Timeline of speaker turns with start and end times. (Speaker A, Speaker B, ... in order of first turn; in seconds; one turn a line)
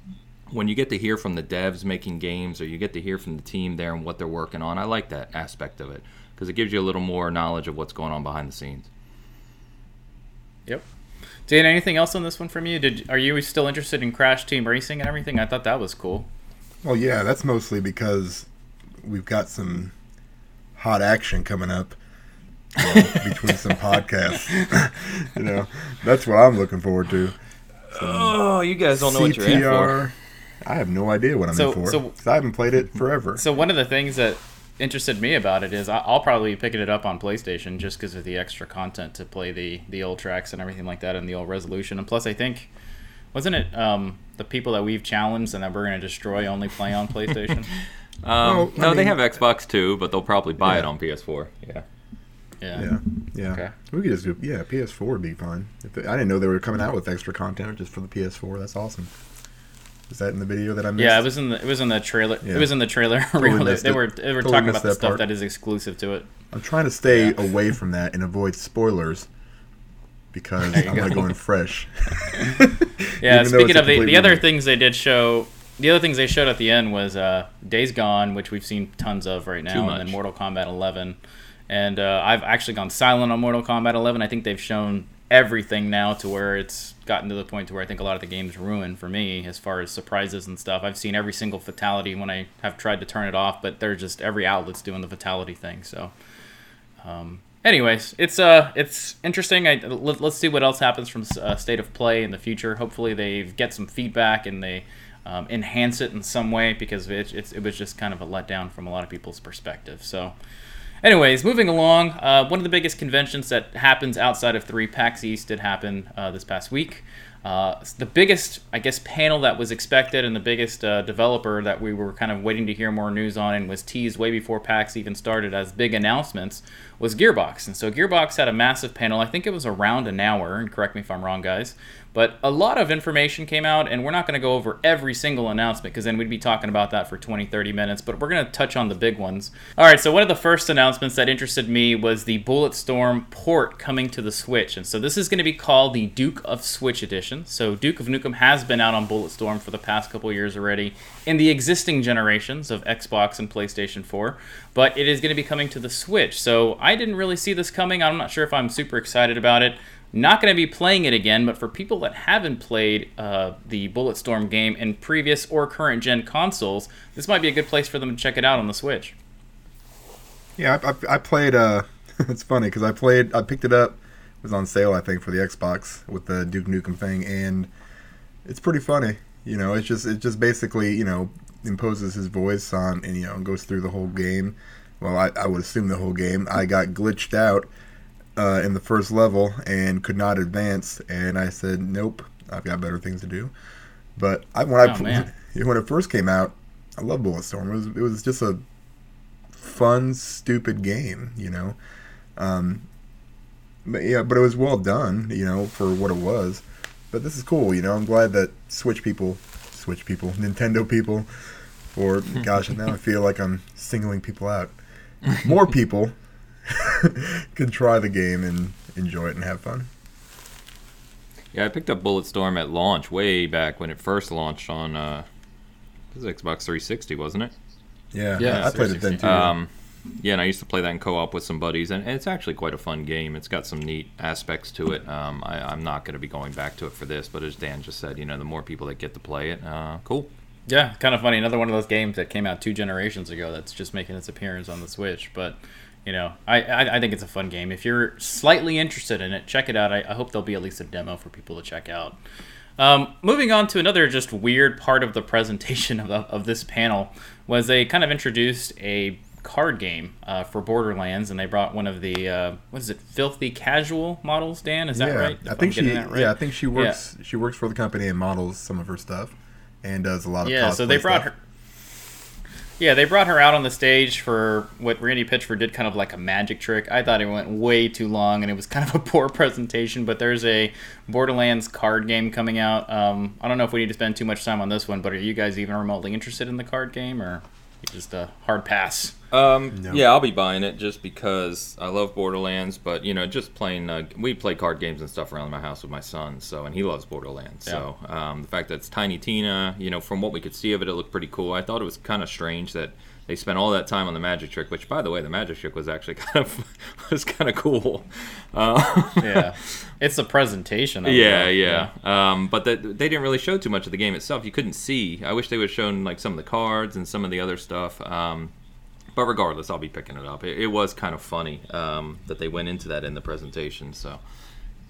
Speaker A: 0.5-8.9
Speaker B: 11.5-16.3
Speaker C: 16.8-18.5
Speaker C: 19.0-19.9
Speaker C: 20.8-22.0
Speaker C: 22.8-27.3
Speaker A: 22.8-23.2
Speaker A: 27.9-30.1
Speaker C: 27.9-28.4
Speaker C: 28.9-33.4
Speaker B: 31.5-32.1
Speaker B: 33.4-42.7
Speaker B: 43.3-47.7
Speaker A: 48.2-51.8
Speaker C: 48.4-49.2
Speaker B: 52.6-52.9
Speaker C: 52.7-59.1
Speaker B: 53.5-53.7
Speaker C: 60.1-61.2
Speaker B: 61.0-66.3
Speaker C: 62.4-62.7
Speaker C: 63.4-65.2
Speaker C: 66.5-69.3
Speaker C: 70.3-74.4
Speaker B: 70.7-71.2
Speaker B: 73.2-81.2
Speaker A: 79.7-80.2
Speaker B: 81.7-96.1
Speaker B: 97.0-110.3
Speaker B: 111.0-169.2
Speaker C: 170.6-177.7
Speaker C: 178.4-187.7
Speaker C: 188.3-193.5
Speaker C: 194.2-198.6
Speaker B: 194.8-195.3
Speaker C: 199.5-201.8
Speaker C: 202.3-202.8
Speaker C: 203.8-211.3
Speaker C: 211.9-214.7
Speaker C: 215.2-219.9
Speaker A: 221.5-225.2
Speaker A: 226.1-227.5
Speaker C: 228.1-229.5
Speaker B: 228.4-229.3
Speaker A: 228.4-240.3
Speaker B: 240.7-252.2
Speaker B: 252.8-267.0
Speaker C: 264.9-271.2
Speaker B: 270.4-271.3
Speaker B: 272.8-289.1
Speaker A: 289.3-309.8
Speaker C: 289.7-290.0
Speaker B: 309.2-311.9
Speaker A: 311.0-318.5
Speaker A: 319.1-324.2